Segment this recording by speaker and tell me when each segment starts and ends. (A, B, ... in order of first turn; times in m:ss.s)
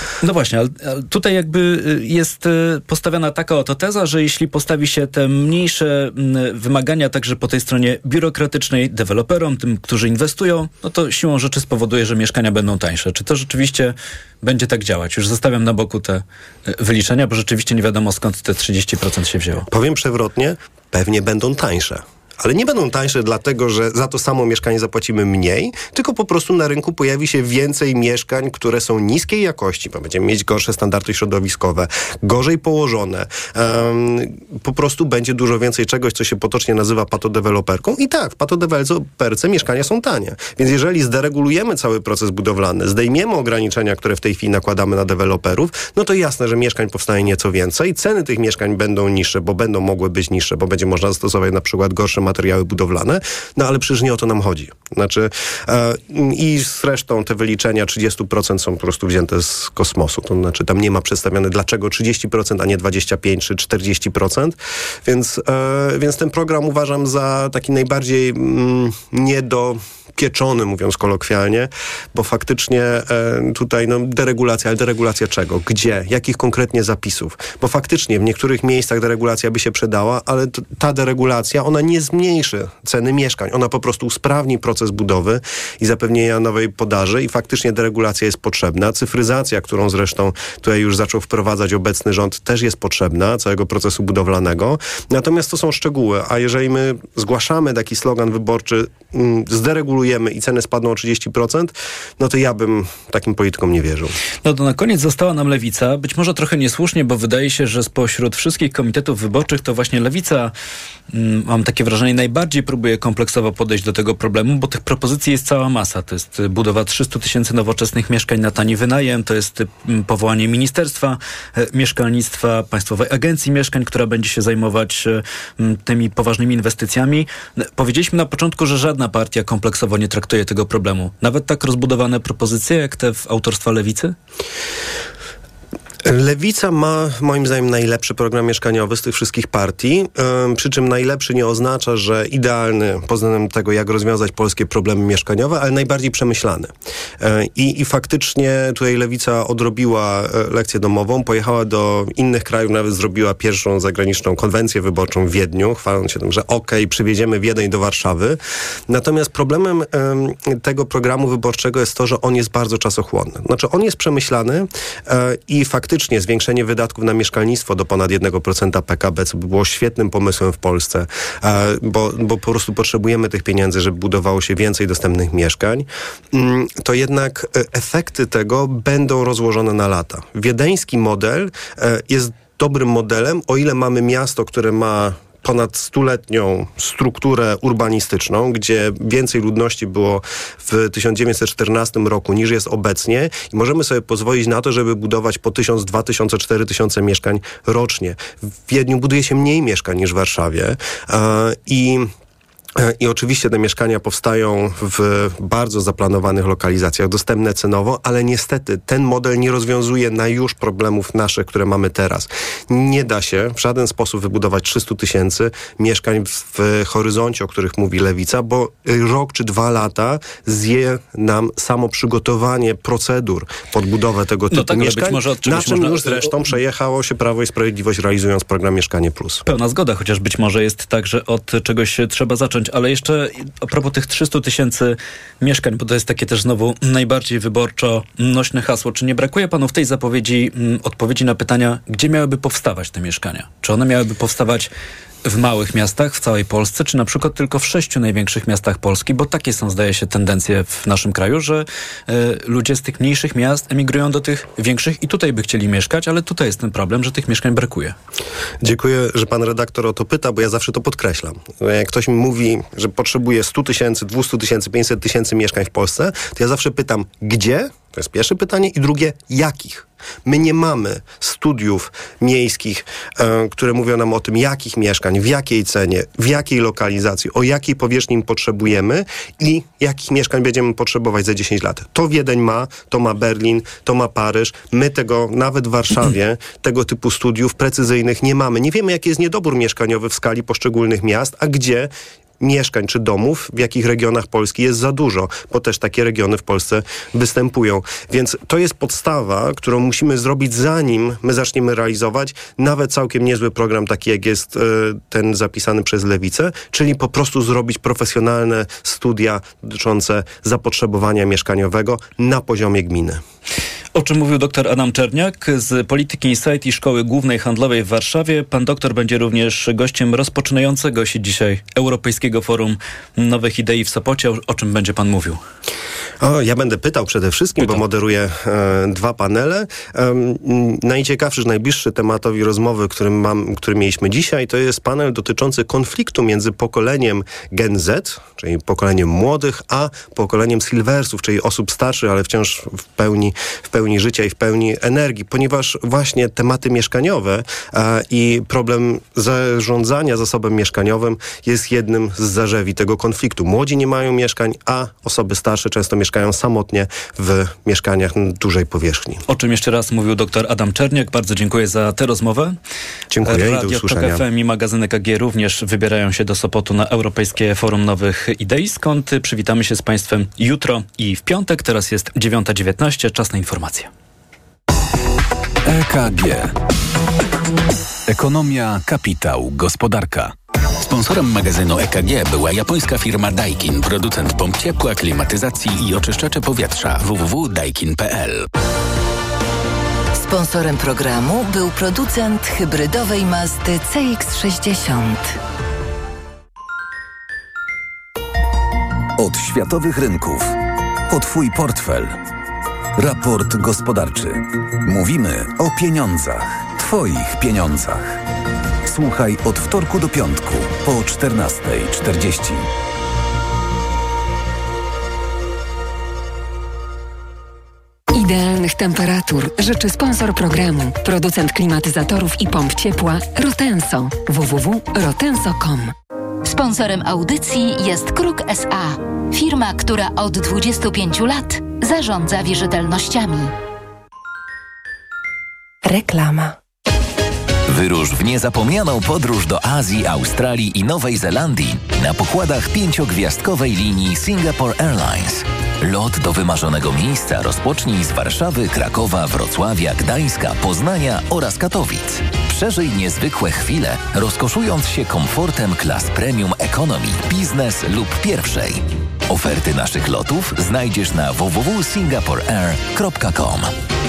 0:00.2-0:19.7 A
0:19.7-1:44.2 B
1:44.4-1:50.5 A
1:51.1-2:14.1 A
2:16.0-2:26.7 B
2:27.2-2:38.4 B
2:38.9-3:22.1 B
3:22.8-3:49.4 B
3:44.5-3:46.4 A
3:49.4-4:04.7 A
4:05.2-4:17.9 A
4:18.6-5:13.2 B
5:13.9-5:25.4 A
5:26.2-5:59.2 B
5:59.3-6:02.6 A
6:03.1-6:04.2 B
6:03.2-6:13.9 A
6:15.6-6:16.6 C
6:18.1-6:20.3 C
6:20.8-6:28.5 D
6:30.1-6:35.4 E
6:39.2-6:42.2 C
6:43.0-6:48.2 C
6:48.8-6:52.7 C
6:58.1-7:05.9 F
7:06.4-7:13.5 G
7:15.8-7:16.5 E
7:17.7-7:43.7 H